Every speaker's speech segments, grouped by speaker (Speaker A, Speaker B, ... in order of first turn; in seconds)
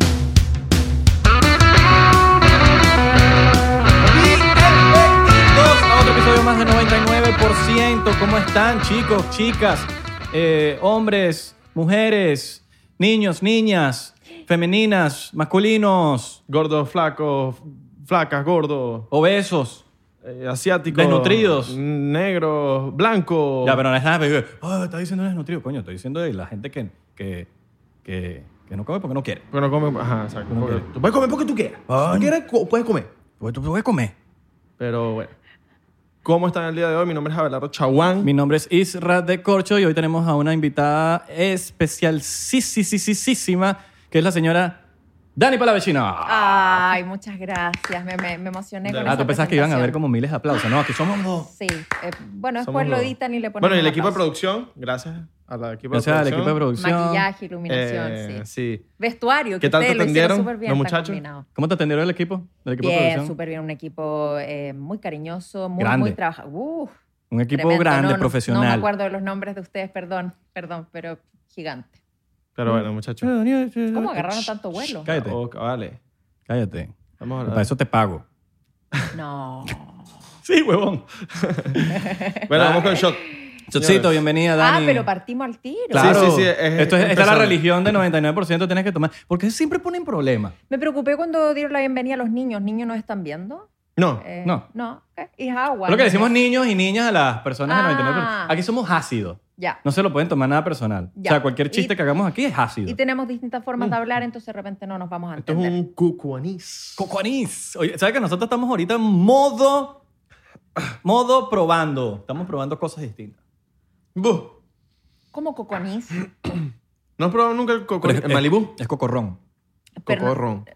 Speaker A: 4.0-16.4, 19.1-19.8, 20.9-21.8, 23.6-27.5, 28.0-29.4, 30.5-30.9, 31.9-32.3, 33.4-34.1, 38.2-44.8, 45.4-46.9, 49.0-51.5, 55.9-57.2, 61.5-63.3, 65.8-66.2, 67.3-68.9, 72.7-75.4, 76.5-78.2, 80.4-81.1, 81.7-83.0, 83.7-85.1, 85.9-90.5, 95.9-103.0, 107.0-110.0, 110.9-113.4, 118.0-119.4
Speaker B: 16.5-19.1, 20.2-23.8, 29.5-33.1, 34.8-35.3, 36.2-38.3, 48.8-49.2, 52.6-56.6, 57.7-58.9, 59.6-61.2, 72.5-73.3, 75.2-76.0, 77.2-77.7, 81.3-81.9, 82.5-84.2, 85.9-87.6, 94.0-94.2, 105.4-107.0, 114.2-114.6, 117.2-118.7, 120.0-120.7
Speaker C: 46.2-50.0, 51.4-54.2, 56.8-58.4, 59.0-61.5, 62.8-66.9, 67.5-72.0, 73.9-75.1, 79.1-79.9, 82.0-82.4, 84.6-86.3, 90.7-93.7, 94.2-96.3, 97.7-98.6, 101.2-102.0, 102.8-105.7, 115.3-116.3, 120.0-120.4